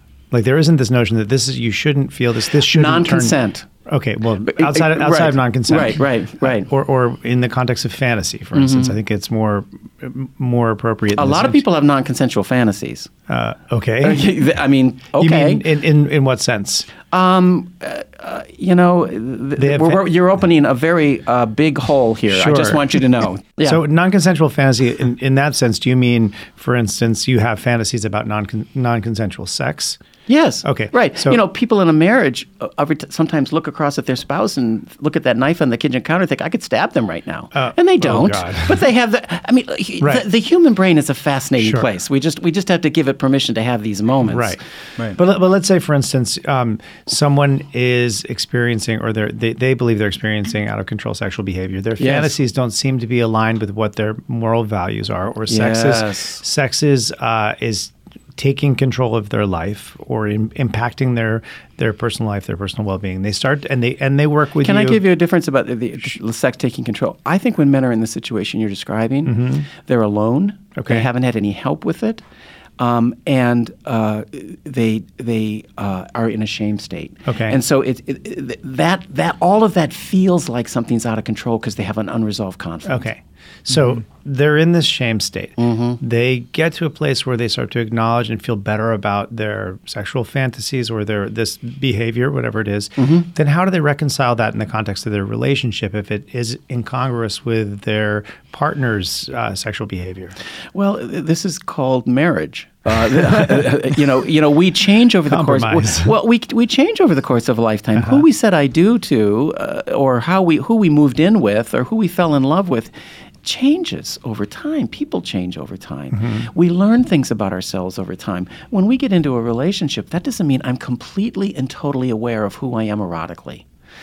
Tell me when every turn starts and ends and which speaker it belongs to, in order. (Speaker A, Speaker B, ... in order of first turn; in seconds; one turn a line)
Speaker A: 0.3-11.6
Speaker B: 2.6-3.7
Speaker B: 4.4-6.7
Speaker B: 8.5-8.9
Speaker B: 11.2-13.1
Speaker A: 13.3-14.4
Speaker B: 14.0-15.6
Speaker A: 15.2-16.9
Speaker B: 17.1-23.8
Speaker A: 19.6-20.0
Speaker A: 22.3-30.0
Speaker B: 30.3-44.5
Speaker A: 30.6-31.4
Speaker A: 37.5-38.8
Speaker A: 41.6-41.9
Speaker A: 44.3-44.6
Speaker A: 45.1-65.0
Speaker B: 52.0-52.3
Speaker B: 55.5-56.4
Speaker B: 64.6-72.2
Speaker A: 69.2-69.7
Speaker A: 70.8-71.1
Speaker B: 72.8-83.1
Speaker A: 77.3-77.6
Speaker A: 82.9-100.3
Speaker B: 85.6-86.0
Speaker B: 93.0-93.3
Speaker B: 100.7-112.9
Speaker A: 105.3-106.1
Speaker A: 108.0-108.2
Speaker B: 113.4-123.7
Speaker A: 116.2-116.5